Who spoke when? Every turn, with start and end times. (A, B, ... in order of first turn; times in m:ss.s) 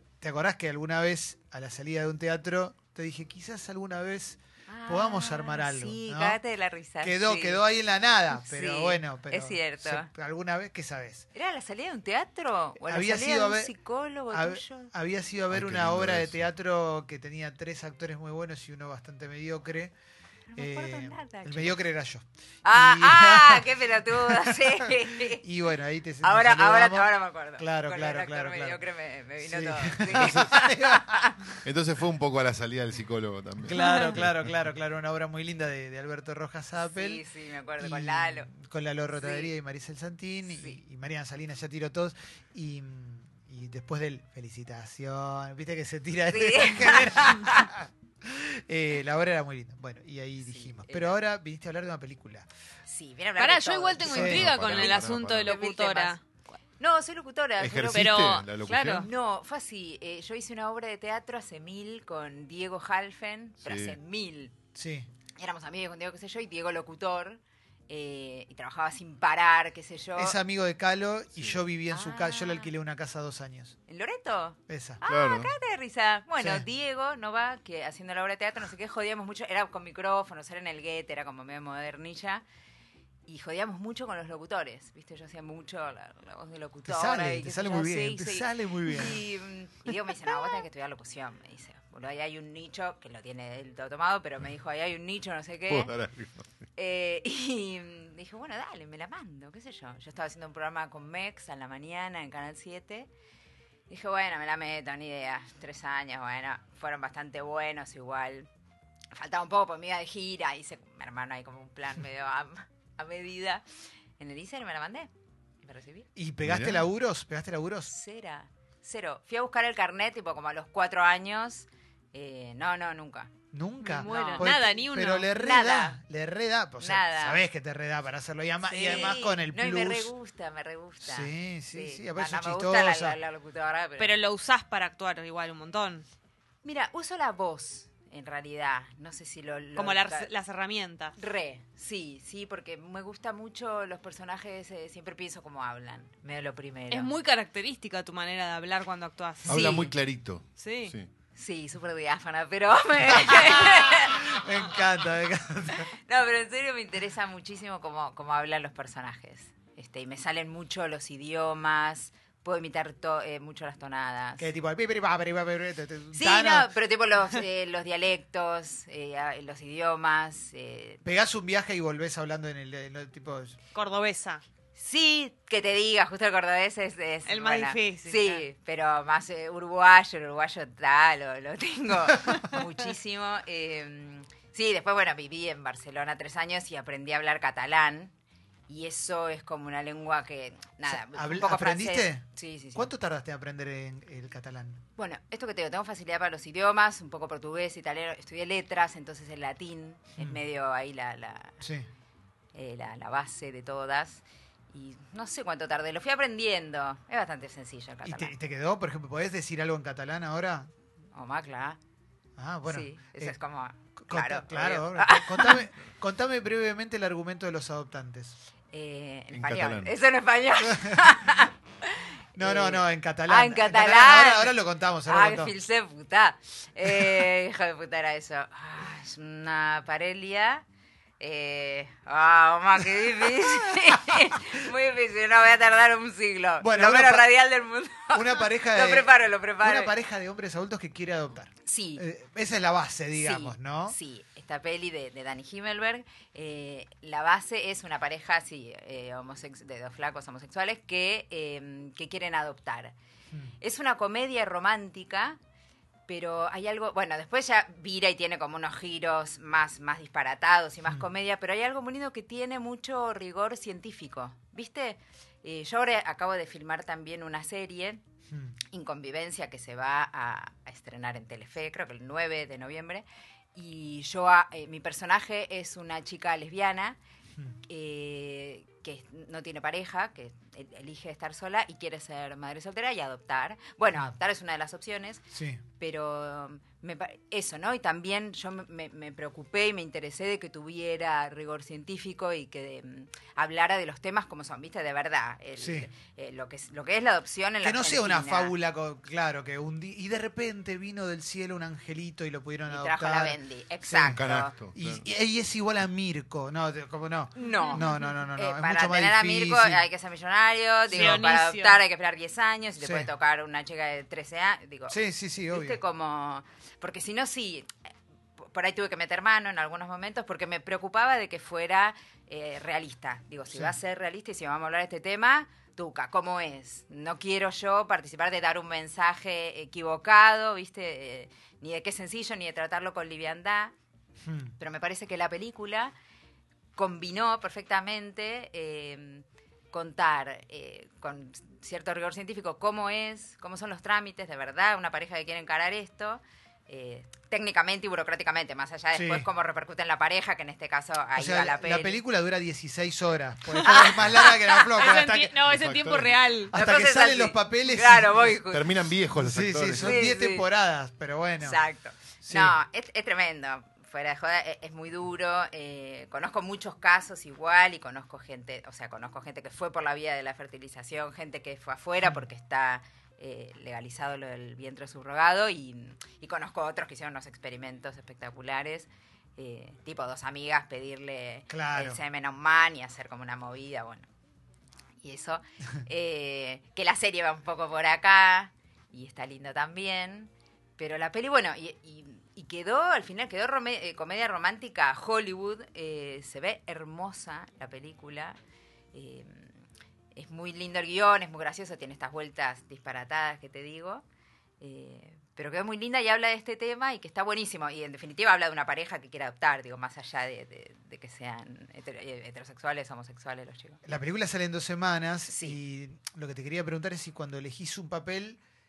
0:00.2-0:06.4 A
0:04.7-0:07.6 B
0:07.0-0:11.3 A
0:08.4-0:10.1 B
0:11.3-0:14.9 B
0:12.9-0:13.7 A
0:14.3-0:19.9 A
0:15.5-0:16.4 C
0:20.5-0:21.8 B
0:20.6-0:28.8 A
0:22.6-0:25.4 B
0:26.2-0:31.5 B
0:29.4-0:31.6 A
0:30.1-0:30.5 C
0:31.6-0:34.4 C
0:33.6-0:37.2 A
0:36.8-0:38.5 B
0:37.8-0:52.5 A
0:39.2-0:39.5 B
0:40.5-0:40.8 B
0:46.3-0:47.7 B
0:50.4-0:51.2 B
0:52.9-0:56.2 B
0:53.4-0:56.2 D
0:54.0-0:55.6 C
0:54.0-0:54.4 A
0:56.8-1:04.5 B
0:57.6-0:59.1 C
0:57.9-0:59.1 D
1:03.6-1:04.0 C
1:04.8-1:05.1 A
1:05.4-1:10.4 B
1:10.2-1:13.8 A
1:11.4-1:11.6 C
1:11.9-1:12.7 B
1:13.9-1:22.4 B
1:14.7-1:15.0 A
1:15.1-1:15.5 C
1:16.4-1:16.6 A
1:23.3-1:35.9 B
1:26.8-1:29.2 A
1:35.7-1:36.6 C
1:36.8-1:43.1 B
1:43.9-1:48.5 B
1:49.1-1:53.6 B
1:54.2-1:55.1 B
1:55.6-1:56.1 B
1:56.2-1:57.9 A
1:56.4-1:56.8 C
1:57.9-2:03.3 B
2:03.5-2:10.1 A
2:03.8-2:05.3 D
2:04.0-2:04.6 B
2:05.3-2:06.0 B
2:06.8-2:07.4 B
2:08.7-2:09.2 D
2:08.8-2:14.2 B
2:11.0-2:13.2 A
2:14.0-2:16.1 D
2:16.6-2:20.3 B
2:19.8-2:21.2 D
2:21.2-2:27.1 B
2:26.9-2:29.9 D
2:29.5-2:31.1 C
2:29.5-2:29.9 B
2:30.6-2:31.0 D
2:31.4-2:34.4 B
2:33.2-2:35.9 A
2:35.9-2:44.5 B
2:44.4-2:46.7 A
2:46.1-2:51.0 B
2:51.0-2:53.6 A
2:53.8-2:54.4 D
2:54.8-3:08.1 B
2:57.3-2:58.4 D
3:08.7-3:12.9 B
3:10.9-3:14.8 A
3:15.0-3:21.6 B
3:21.6-3:21.9 A
3:22.5-3:28.3 B
3:28.0-3:30.7 A
3:31.2-3:31.8 B
3:32.4-3:33.4 A
3:32.6-3:35.7 B
3:34.0-3:38.4 A
3:38.7-3:50.6 B
3:39.3-3:40.0 C
3:40.6-3:41.2 A
3:42.4-3:45.5 A
3:51.2-3:59.9 B
3:56.6-3:57.3 A
3:58.1-4:04.0 A
4:01.6-4:02.0 B
4:03.2-4:13.0 B
4:13.6-4:15.4 B
4:16.1-4:28.0 B
4:28.3-4:28.6 A
4:28.7-4:37.0 B
4:37.7-4:45.2 B
4:45.3-4:45.6 A
4:45.8-4:58.5 B
4:55.6-4:55.9 A
4:57.6-5:09.8 A
5:02.7-5:04.5 B
5:04.0-5:05.1 C
5:07.4-5:15.0 B
5:07.4-5:08.0 D
5:10.9-5:11.8 D
5:12.8-5:13.1 A
5:14.9-5:15.8 A
5:15.5-5:33.7 B
5:23.5-5:23.8 A
5:34.2-5:34.6 A
5:34.6-5:35.9 B
5:36.8-5:52.0 B
5:48.9-5:49.3 A
5:51.2-5:55.4 A
5:53.6-5:54.6 B
5:54.7-5:56.5 D
5:55.4-5:56.2 C
5:56.5-5:58.4 A
5:56.5-5:58.7 B
5:58.4-6:00.0 C
5:59.2-6:01.6 A
5:59.8-6:00.5 B
6:01.4-6:24.1 B
6:02.2-6:02.6 A
6:21.5-6:22.0 A
6:25.0-6:38.4 B
6:38.9-6:39.6 B
6:40.2-6:44.0 B
6:44.6-6:53.8 B
6:53.8-6:58.4 A
6:55.3-6:55.6 B